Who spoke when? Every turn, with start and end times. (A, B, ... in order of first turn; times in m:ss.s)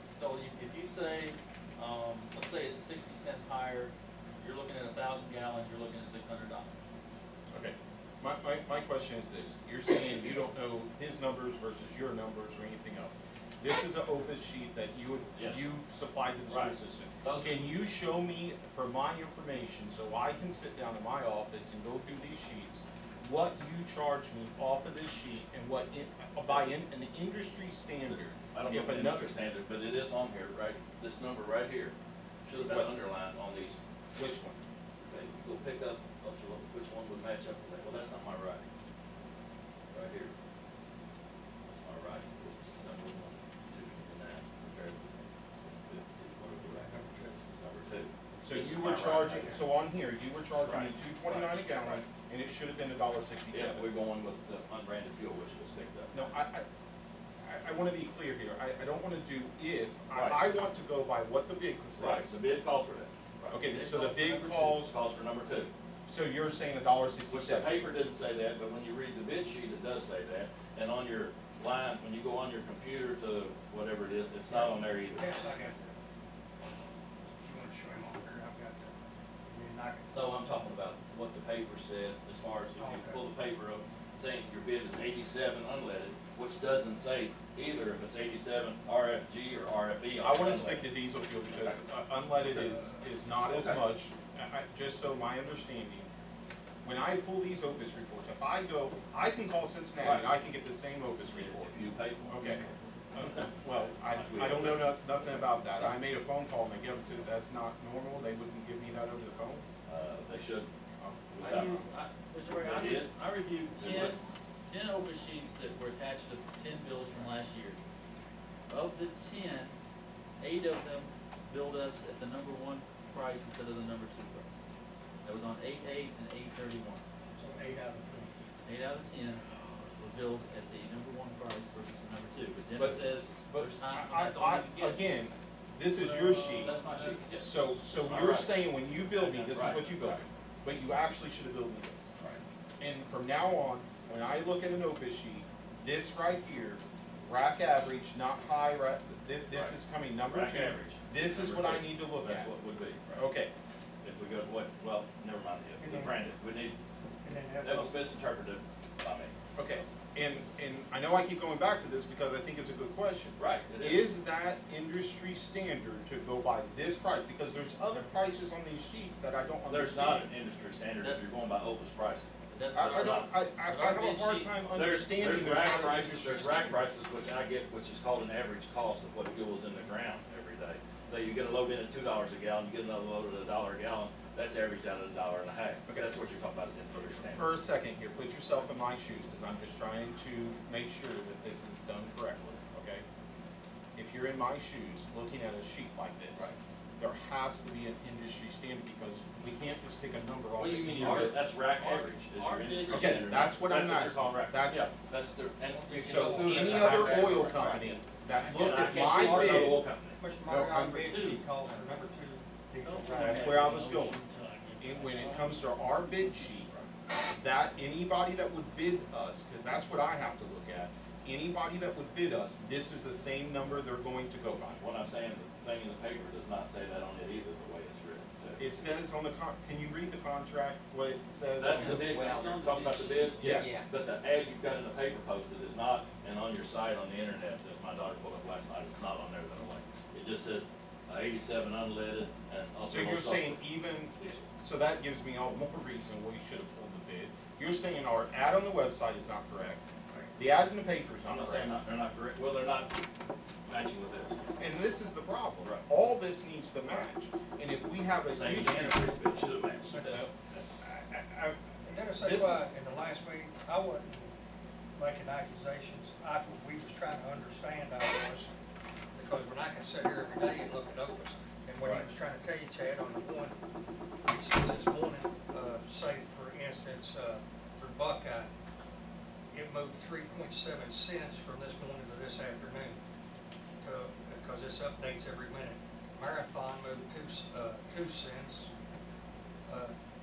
0:00.1-0:06.8 A
0:07.5-0:29.3 B
0:15.3-0:15.7 C
0:16.5-0:17.7 C
0:26.5-0:26.7 C
0:28.5-0:33.8 C
0:32.6-0:32.9 B
0:34.1-0:34.6 B
0:35.0-0:38.6 C
0:39.9-0:40.3 C
0:41.7-0:49.6 C
0:46.9-0:47.2 D
0:48.4-0:53.9 B
0:50.6-0:52.0 C
0:53.5-0:56.1 C
0:56.1-0:56.6 B
0:57.4-1:02.3 B
1:00.1-1:00.4 C
1:02.0-1:03.6 C
1:03.5-1:04.9 B
1:03.6-1:04.8 A
1:04.8-1:05.7 C
1:06.1-1:07.9 B
1:07.3-1:15.4 C
1:14.5-1:16.0 D
1:17.4-1:20.2 D
1:20.1-1:30.9 C
1:22.8-1:23.2 D
1:30.2-1:36.1 B
1:31.5-1:31.8 C
1:33.5-1:34.0 C
1:36.8-1:41.7 B
1:40.0-1:40.3 C
1:41.3-1:43.4 C
1:42.3-1:49.6 B
1:44.2-1:44.9 C
1:44.6-1:44.8 A
1:49.9-1:51.9 C
1:51.4-1:57.8 A
1:52.6-1:53.1 C
1:53.7-1:54.2 C
1:58.7-1:59.7 A
2:00.4-2:04.6 A
2:05.2-2:07.0 A
2:07.3-2:08.3 D
2:08.6-2:15.0 A
2:12.8-2:16.8 B
2:16.0-2:17.1 D
2:16.6-2:17.5 A
2:16.6-2:17.5 C
2:17.4-2:22.1 B
2:18.0-2:18.6 C
2:19.2-2:20.2 C
2:19.5-2:20.0 A
2:22.8-2:32.5 B
2:29.5-2:29.7 C
2:30.3-2:33.2 C
2:33.1-2:33.5 B
2:34.0-2:36.8 C
2:35.8-2:36.2 D
2:37.2-2:37.9 D
2:37.6-2:39.3 C
2:39.5-2:50.3 B
2:43.4-2:44.1 C
2:49.7-2:52.3 C
2:51.0-2:51.3 A
2:52.5-2:54.5 A
2:52.7-2:56.8 B
2:54.7-3:07.5 C
3:06.9-3:13.0 B
3:13.9-3:16.4 B
3:17.0-3:21.4 B
3:20.6-3:30.2 C
3:21.0-3:23.4 A
3:22.9-3:24.9 B
3:25.9-3:27.2 D
3:26.0-3:29.8 B
3:26.8-3:27.5 A
3:28.6-3:33.9 D
3:30.4-3:31.0 B
3:31.1-3:31.5 A
3:32.8-3:35.6 A
3:33.1-3:34.2 B
3:34.8-3:36.7 B
3:37.3-3:44.8 B
3:44.8-3:48.8 C
3:48.6-3:52.2 B
3:51.5-4:04.4 C
3:51.7-3:53.8 A
3:53.4-3:53.8 B
4:02.9-4:09.8 B
4:10.4-4:11.7 B
4:11.2-4:13.0 C
4:13.7-4:14.4 C
4:14.6-4:19.1 B
4:18.3-4:20.6 C
4:19.9-4:20.2 D
4:20.8-4:21.6 B
4:21.8-4:24.3 D
4:22.2-4:22.7 B
4:25.0-4:28.5 D
4:29.1-4:33.5 D
4:31.8-4:32.1 B
4:34.2-4:38.5 D
4:39.5-4:43.0 D
4:43.8-4:48.7 D
4:49.7-4:49.9 D